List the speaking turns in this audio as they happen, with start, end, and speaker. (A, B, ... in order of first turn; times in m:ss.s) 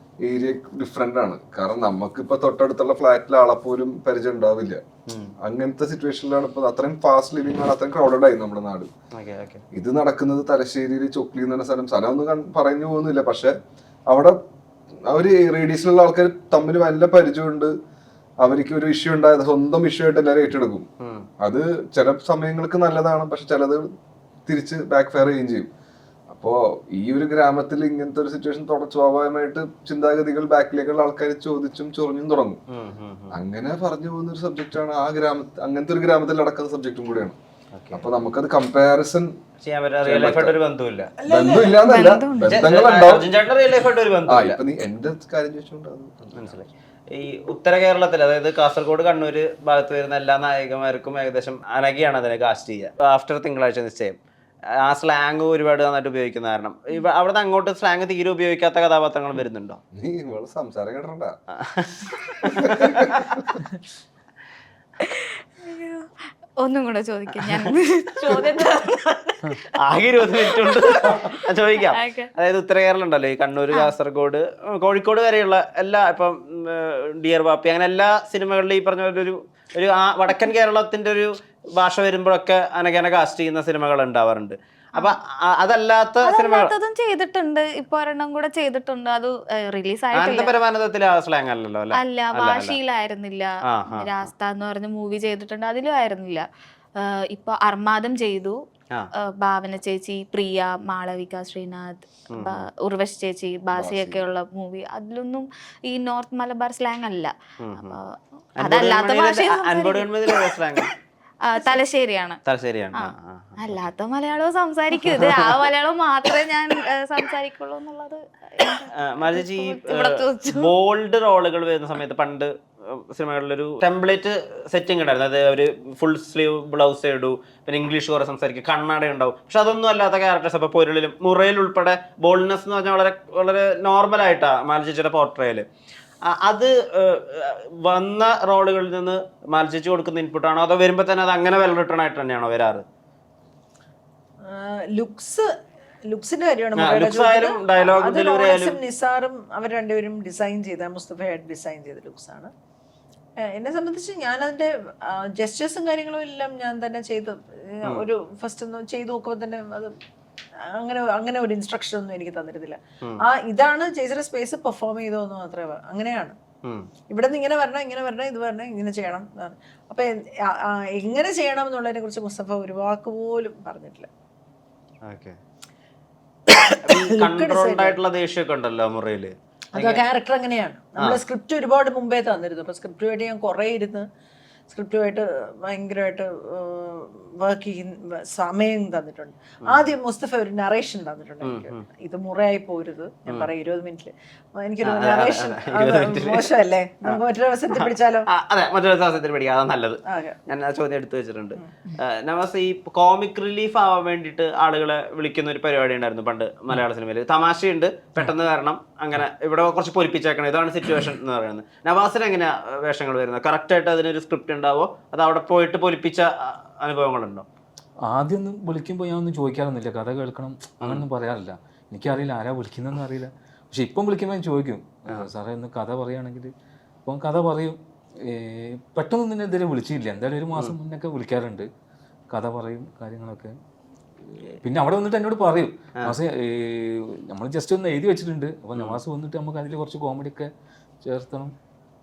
0:00.2-0:04.8 A
0:05.1-0:05.3 B
0:05.4-0:08.9 A
0:09.1-0:09.6 B
0:09.7-0:13.5 A
0:14.1-0:14.4 A
0:15.1-0:17.7 A
0:18.4-0:20.9 A
0:21.0-0:21.3 B
0:21.4-0:23.8 A
0:24.4-0:25.7 A
0:26.3-0:32.6 A
0:32.7-0:33.4 B
0:33.3-0:37.4 A
0:37.7-0:38.1 B
0:37.9-0:39.3 A
0:39.6-0:41.1 B
0:40.0-0:40.6 A
0:41.2-0:41.8 C
0:41.3-0:43.3 A
0:41.8-0:42.6 D
0:42.4-0:44.6 B
0:44.3-0:46.6 A
0:46.3-0:54.2 B
0:54.8-0:59.8 B
0:59.9-1:01.4 A
1:01.6-1:03.3 B
1:02.6-1:03.5 A
1:05.0-1:06.1 D
1:06.6-1:09.4 D
1:07.4-1:07.7 B
1:09.7-1:26.7 B
1:11.9-1:12.3 D
1:26.2-1:30.5 D
1:30.1-1:32.8 B
1:31.9-1:38.6 D
1:33.6-1:34.3 B
1:39.2-1:50.1 D
1:42.3-1:42.6 B
1:43.7-1:44.2 A
1:47.6-1:48.0 B
1:48.6-1:50.9 B
1:51.4-1:52.4 D
1:52.4-1:53.9 B
1:53.0-2:00.7 D
1:55.0-1:55.6 B
1:58.9-2:15.7 B
2:16.2-2:22.8 B
2:24.4-2:25.5 C
2:26.0-2:32.5 C
2:26.8-2:28.8 B
2:33.4-2:39.9 C
2:40.6-2:46.4 C
2:47.1-2:54.1 C
2:55.0-2:55.4 B
2:56.5-2:58.0 C
2:56.8-3:00.0 B
2:59.7-3:04.1 C
3:04.7-3:18.3 C
3:11.4-3:11.8 B
3:14.8-3:16.5 B
3:17.7-3:37.4 B
3:20.1-3:20.4 C
3:38.0-3:46.5 E
3:47.0-3:51.7 E
3:52.3-3:53.5 E
3:54.6-4:00.5 E
3:58.7-3:59.0 B
4:01.0-4:01.5 E